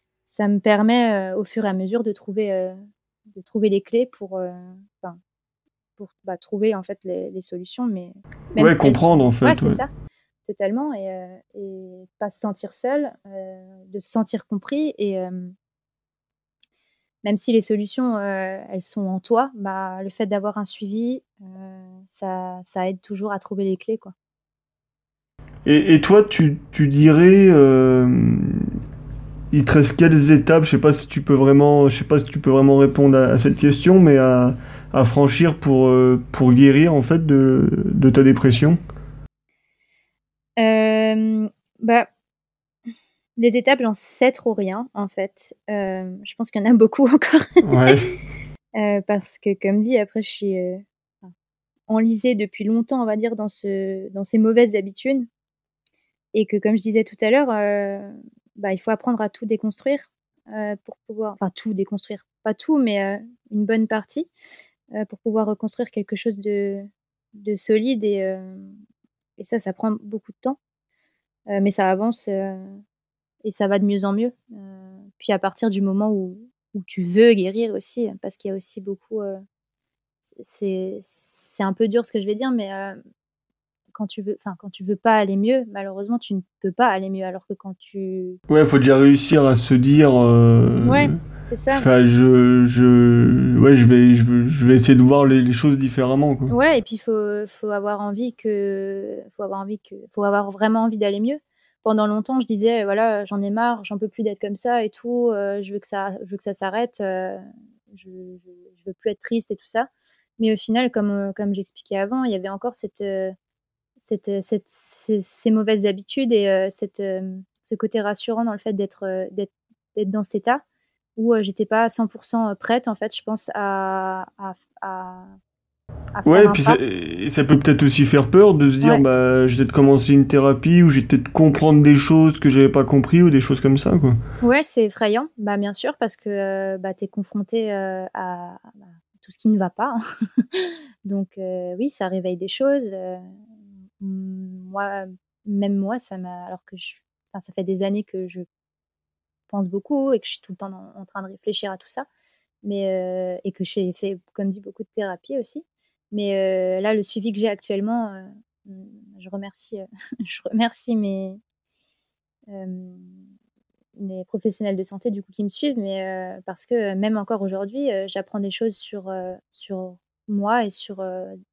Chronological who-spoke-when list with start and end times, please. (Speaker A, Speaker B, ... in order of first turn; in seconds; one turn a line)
Speaker A: 0.3-2.8
Speaker A: 3.3-5.2
Speaker A: 6.0-9.9
Speaker B: 8.6-9.8
Speaker A: 10.5-15.5
Speaker A: 17.2-24.1
Speaker B: 25.7-28.7
Speaker B: 29.5-38.8
Speaker A: 40.6-42.1
Speaker A: 43.4-47.9
Speaker B: 47.6-48.1
Speaker A: 48.8-51.3
Speaker A: 51.9-55.3
Speaker A: 56.3-64.3
Speaker A: 65.0-68.8
Speaker A: 69.4-70.6
Speaker A: 71.5-72.8
Speaker A: 73.4-79.4
Speaker A: 80.4-83.0
Speaker A: 83.9-88.4
Speaker B: 88.5-91.2
Speaker A: 90.8-91.9
Speaker B: 91.8-96.5
Speaker A: 96.5-113.3
Speaker A: 114.0-120.6
Speaker A: 121.2-125.3
Speaker A: 126.1-126.8
Speaker B: 126.2-134.2
Speaker A: 134.4-143.4
Speaker A: 144.0-148.5
Speaker A: 149.5-152.1
Speaker A: 152.6-161.4
Speaker A: 162.5-163.2
Speaker A: 164.0-171.4